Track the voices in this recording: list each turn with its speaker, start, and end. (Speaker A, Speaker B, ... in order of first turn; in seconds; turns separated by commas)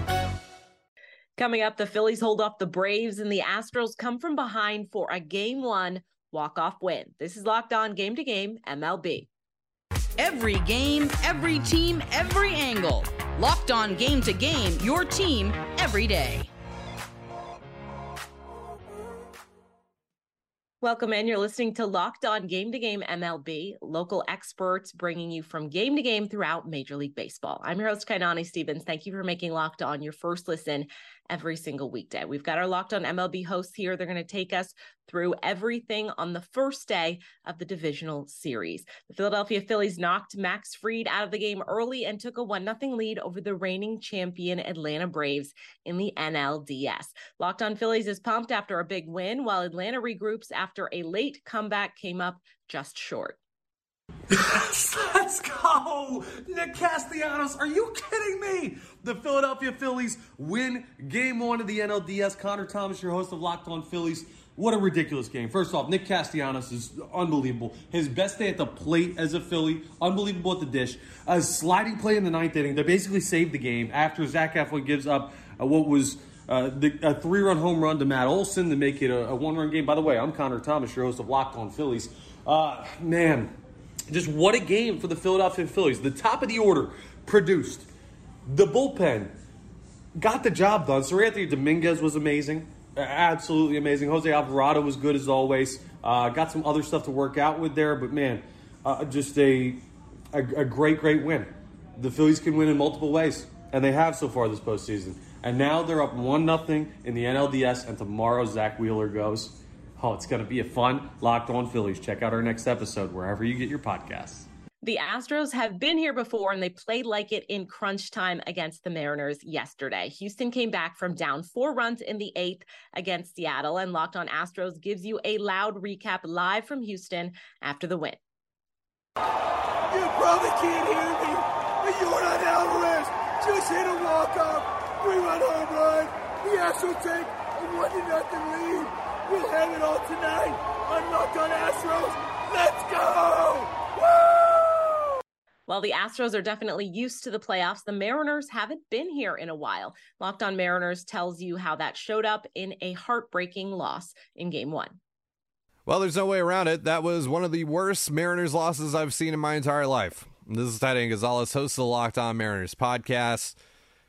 Speaker A: 1.4-9.3, Speaker B: 10.2-16.5, Speaker A: 20.8-53.4, Speaker C: 54.3-83.5, Speaker C: 84.1-87.9, Speaker C: 88.5-89.3, Speaker C: 90.2-114.5, Speaker A: 114.8-128.2, Speaker D: 129.9-144.6, Speaker A: 145.7-155.0, Speaker E: 155.9-163.6